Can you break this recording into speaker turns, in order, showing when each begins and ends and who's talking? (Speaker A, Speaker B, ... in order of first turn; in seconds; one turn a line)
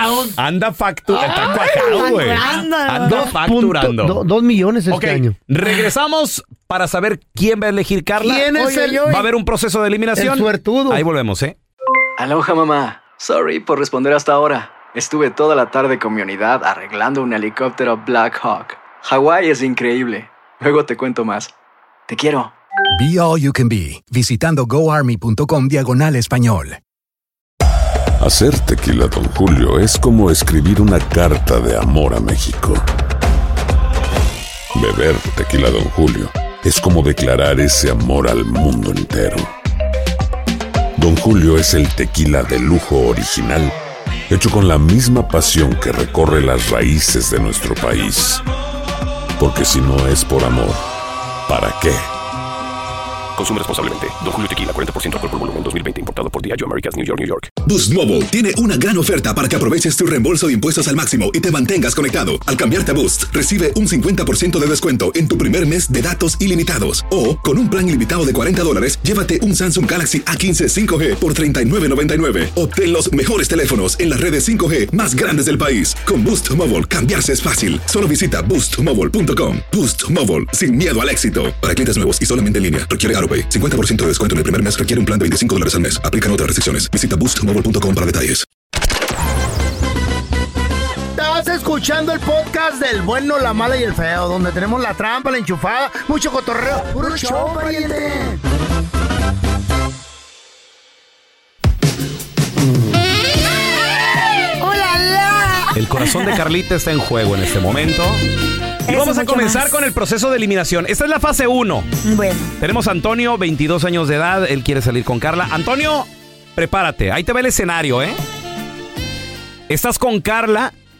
Speaker A: 0.4-4.2
Speaker B: 1.1-5.4
Speaker C: 1.3-3.2
Speaker A: 4.9-11.5
Speaker C: 5.6-5.9
Speaker B: 8.2-9.2
Speaker C: 8.5-9.4
Speaker B: 10.1-11.0
Speaker D: 12.2-21.5
Speaker D: 22.1-22.5
Speaker E: 22.9-26.8
Speaker F: 28.2-32.8
Speaker F: 34.7-39.5
Speaker F: 41.0-43.7
Speaker F: 44.3-48.4
Speaker F: 49.4-50.8
Speaker F: 51.5-52.0
Speaker G: 53.4-57.5
Speaker H: 57.6-88.5
Speaker B: 91.1-98.4
Speaker C: 104.6-106.5
Speaker A: 105.4-108.2
Speaker C: 108.9-109.9
Speaker A: 108.9-118.2
Speaker C: 112.1-112.7
Speaker A: 119.7-120.7